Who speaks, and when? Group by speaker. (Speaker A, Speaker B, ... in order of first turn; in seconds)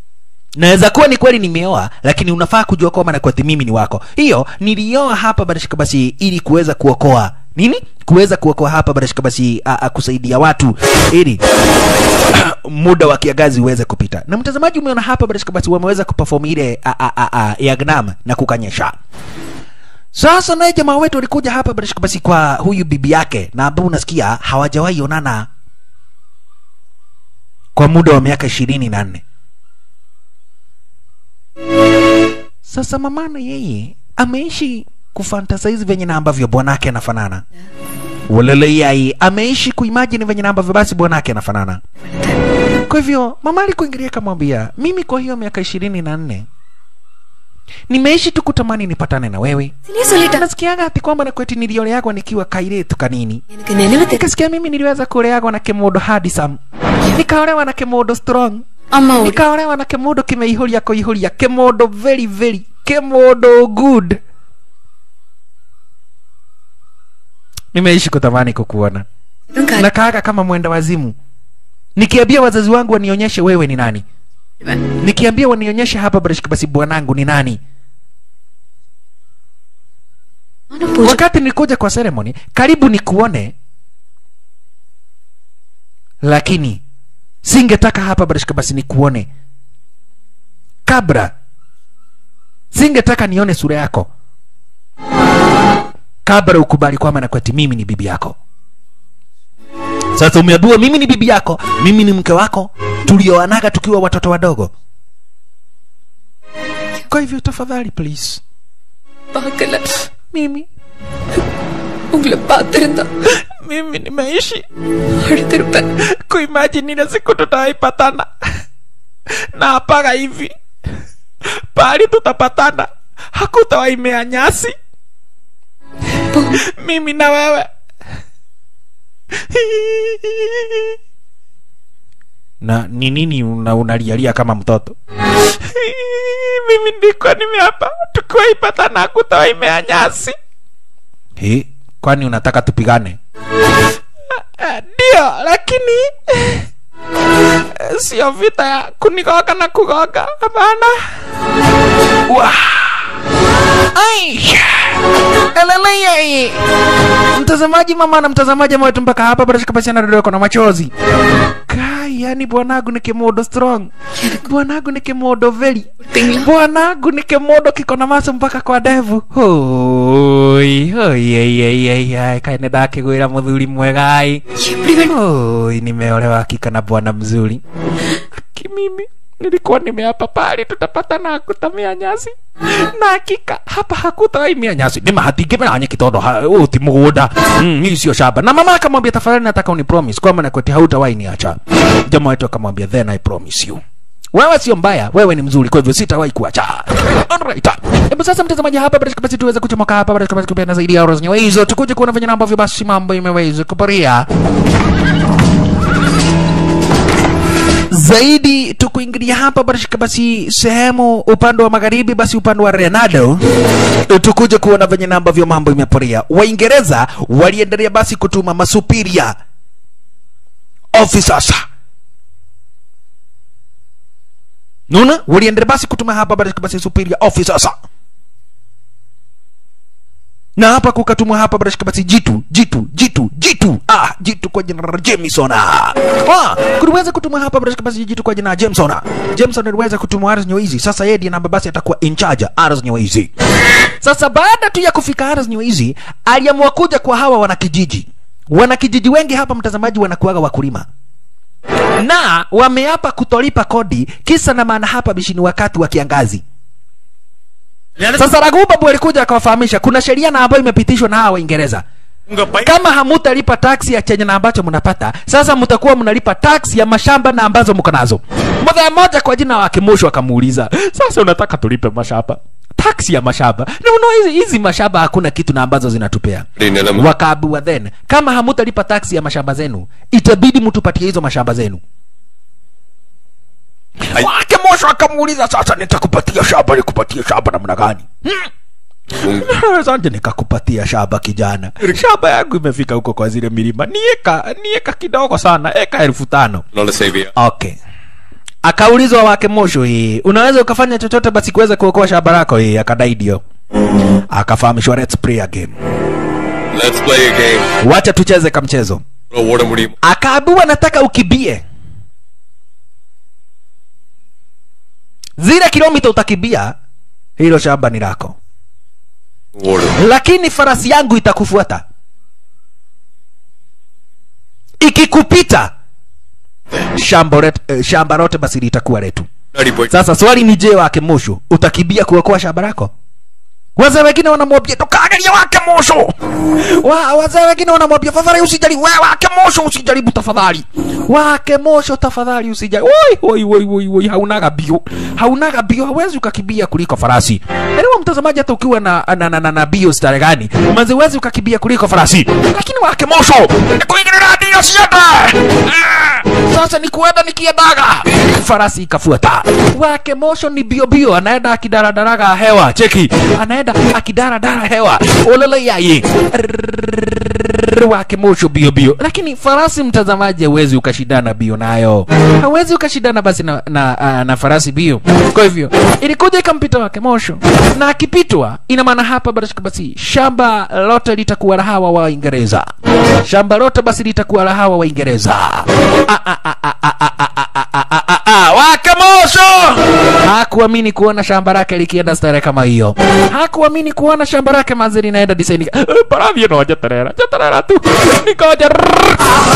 Speaker A: 0.6-11.4, 12.3-18.9, 20.1-25.5, 27.8-29.2, 32.6-37.4, 38.3-41.8, 42.9-46.5, 47.9-49.7, 50.3-53.4, 54.1-56.6, 57.1-58.6, 59.2-64.2, 67.7-69.0, 69.7-71.1, 72.0-74.0, 75.0-77.6, 81.0-83.5, 86.2-86.8, 87.4-89.3, 90.8-91.3, 92.7-94.1, 96.2-98.3, 100.2-104.7, 107.1-108.4, 110.3-110.7, 113.4-114.7, 116.0-118.3, 119.5-120.5, 121.7-124.8, 126.5-127.7, 129.5-130.9, 132.6-134.9, 135.6-140.3, 141.4-143.2, 144.3-146.7, 147.7-151.1, 152.3-153.0, 153.9-155.0, 155.5-156.6, 157.3-160.9, 161.7-174.4, 175.0-177.6, 178.3-193.8, 194.3-204.3, 207.9-213.4, 214.1-219.3, 220.9-221.6, 224.9-227.7, 230.6-243.3, 244.0-250.9, 252.0-256.4, 258.1-261.8, 262.6-281.8, 284.1-288.5, 289.2-296.6, 297.4-297.8, 298.6-303.4, 304.3-305.7, 307.8-309.0, 310.0-311.6, 315.4-316.7, 317.4-318.4, 320.0-321.8, 324.8-325.7, 326.9-329.2, 329.9-332.9, 333.8-382.7, 383.2-399.3
Speaker B: 49.9-50.4, 53.5-54.2, 58.9-59.4, 69.5-69.8, 80.7-81.2, 109.3-110.0, 112.1-113.1, 115.2-115.9, 166.1-166.4, 174.6-175.1
Speaker C: 262.3-262.6, 296.9-297.1, 306.7-307.6, 309.3-309.9, 319.6-319.9, 329.6-329.8